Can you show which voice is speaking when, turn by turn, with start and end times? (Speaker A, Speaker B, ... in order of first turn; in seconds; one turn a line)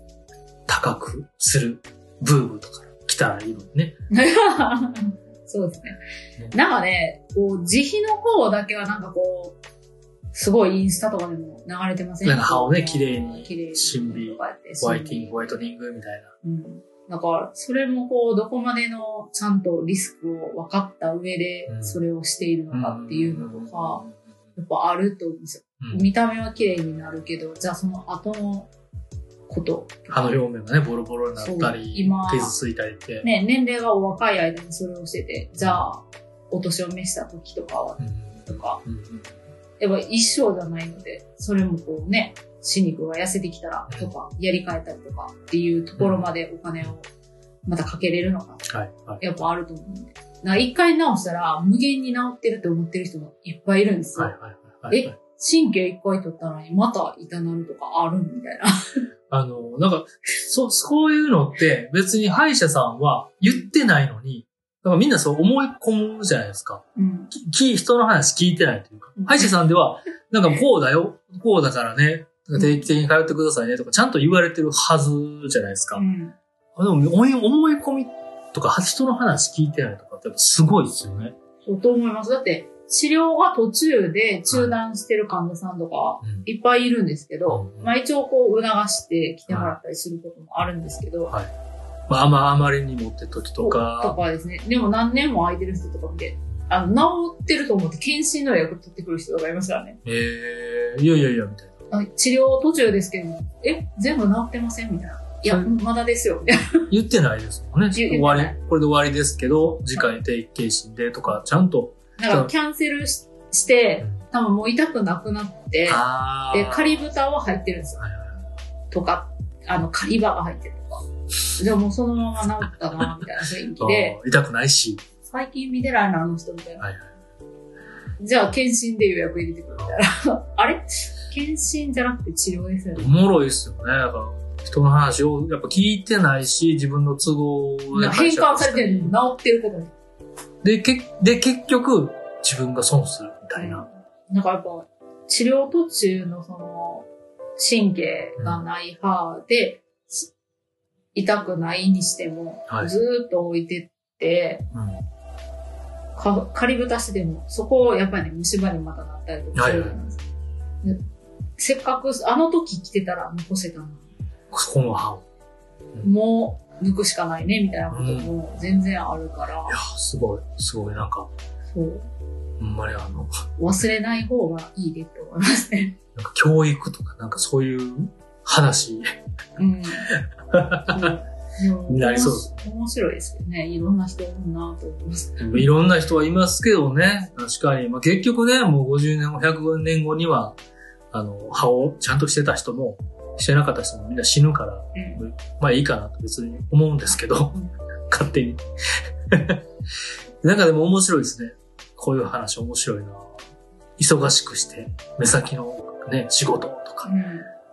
Speaker A: 0.7-4.0
Speaker B: 4.1-6.0
Speaker B: 6.5-9.6
Speaker B: 10.3-15.7
Speaker A: 12.2-16.3
Speaker B: 16.4-24.0
Speaker A: 21.7-22.0
Speaker A: 22.7-24.1
Speaker B: 24.6-28.7
Speaker A: 25.8-26.1
Speaker B: 29.5-30.4
Speaker A: 30.1-33.3
Speaker B: 31.4-32.6
Speaker B: 33.2-38.8
Speaker A: 35.6-35.8
Speaker A: 38.0-39.4
Speaker B: 39.8-47.1
Speaker A: 46.0-46.3
Speaker B: 47.7-48.7
Speaker A: 48.7-49.2
Speaker B: 49.2-54.4
Speaker A: 54.2-55.2
Speaker B: 54.9-59.0
Speaker A: 59.3-76.0
Speaker B: 67.0-67.3
Speaker B: 69.2-69.5
Speaker B: 76.0-76.4
Speaker A: 76.8-81.4
Speaker B: 81.6-91.3
Speaker A: 84.5-84.7
Speaker A: 87.5-87.9
Speaker A: 89.5-89.8
Speaker A: 92.1-94.2
Speaker B: 93.6-100.0
Speaker A: 100.0-101.8
Speaker B: 101.9-106.9
Speaker A: 106.9-112.5
Speaker B: 107.9-108.6
Speaker B: 112.2-118.0
Speaker A: 115.9-117.0
Speaker A: 118.0-118.5
Speaker B: 118.9-124.2
Speaker A: 123.8-125.0
Speaker B: 125.2-126.9
Speaker A: 126.8-127.1
Speaker B: 128.2-133.1
Speaker A: 133.0-139.2
Speaker B: 137.9-139.9
Speaker A: 140.6-143.8
Speaker B: 143.6-150.3
Speaker A: 148.4-148.6
Speaker B: 151.2-154.7
Speaker A: 154.7-155.0
Speaker B: 156.2-160.2
Speaker A: 159.6-160.0
Speaker B: 161.6-164.1
Speaker A: 164.5-165.2
Speaker B: 166.0-169.8
Speaker A: 167.9-168.3
Speaker A: 169.7-171.3
Speaker B: 171.7-172.1
Speaker A: 172.6-173.3
Speaker B: 173.6-176.0
Speaker A: 176.2-179.2
Speaker B: 179.6-180.1
Speaker A: 180.1-181.1
Speaker B: 180.9-185.7
Speaker A: 181.9-182.6
Speaker A: 185.4-190.6
Speaker A: 191.1-197.6
Speaker B: 194.9-195.2
Speaker A: 198.1-199.6
Speaker A: 200.4-203.4
Speaker A: 204.0-207.1
Speaker B: 207.1-207.5